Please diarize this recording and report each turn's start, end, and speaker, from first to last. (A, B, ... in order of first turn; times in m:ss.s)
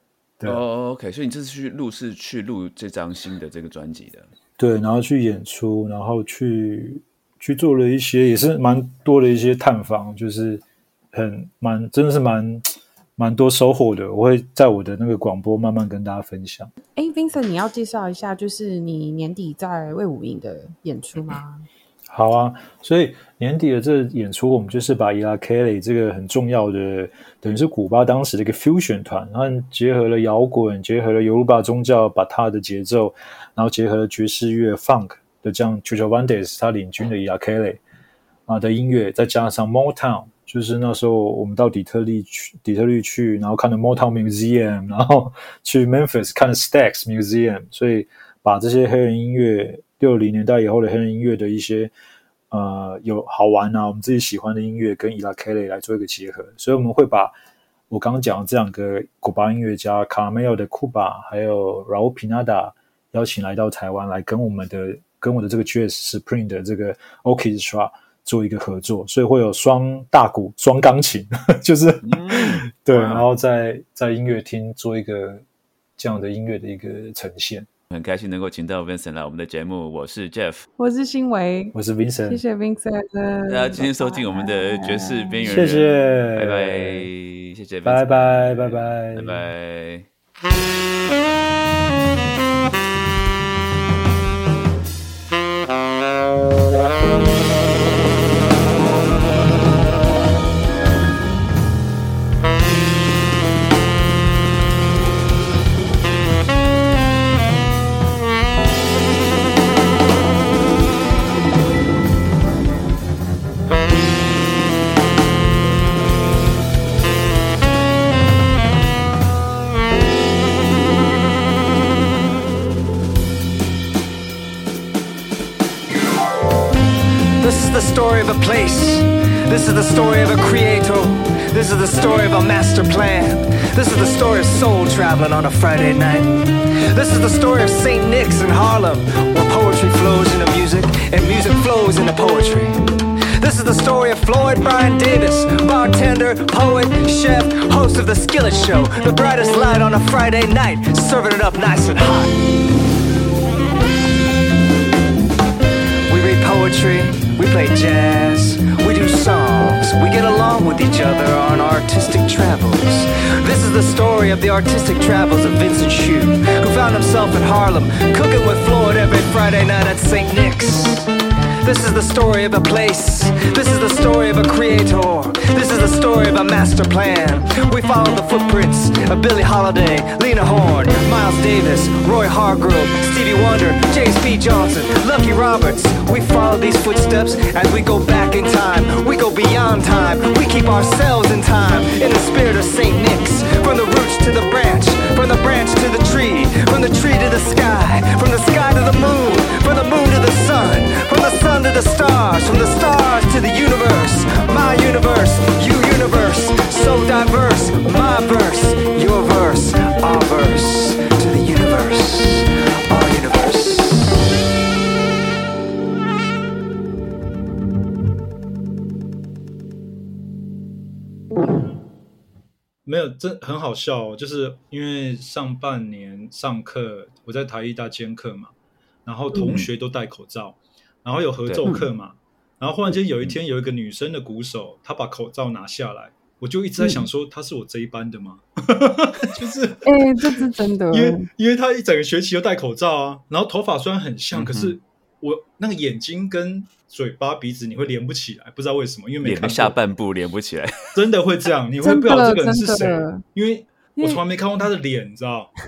0:00.4-0:04.3 A
0:04.6-0:16.7 B
0:17.0-0:21.7 C
0:22.1-0:37.8 B
0:38.5-0:51.9 B
0:52.5-0:57.3 B
0:57.9-1:15.4 B
1:12.0-1:13.3 A
1:16.0-1:17.7 B
1:17.9-1:20.7 A
1:20.8-1:21.8 C
1:21.7-1:22.4 B
1:22.3-1:25.6 C
1:23.5-1:30.1 A
1:25.5-1:27.1 B
1:27.8-1:29.4 B
2:07.4-2:32.4 D
2:36.1-2:51.1 D
2:51.6-3:34.1 D
3:42.9-3:48.5 B
3:49.1-4:09.8 B
3:49.3-3:49.6 C
3:56.8-3:57.0 C
3:59.8-4:01.3 C
4:04.3-4:04.8 A
4:09.2-4:11.0 A
4:10.9-4:15.5 B
4:11.8-4:13.2 C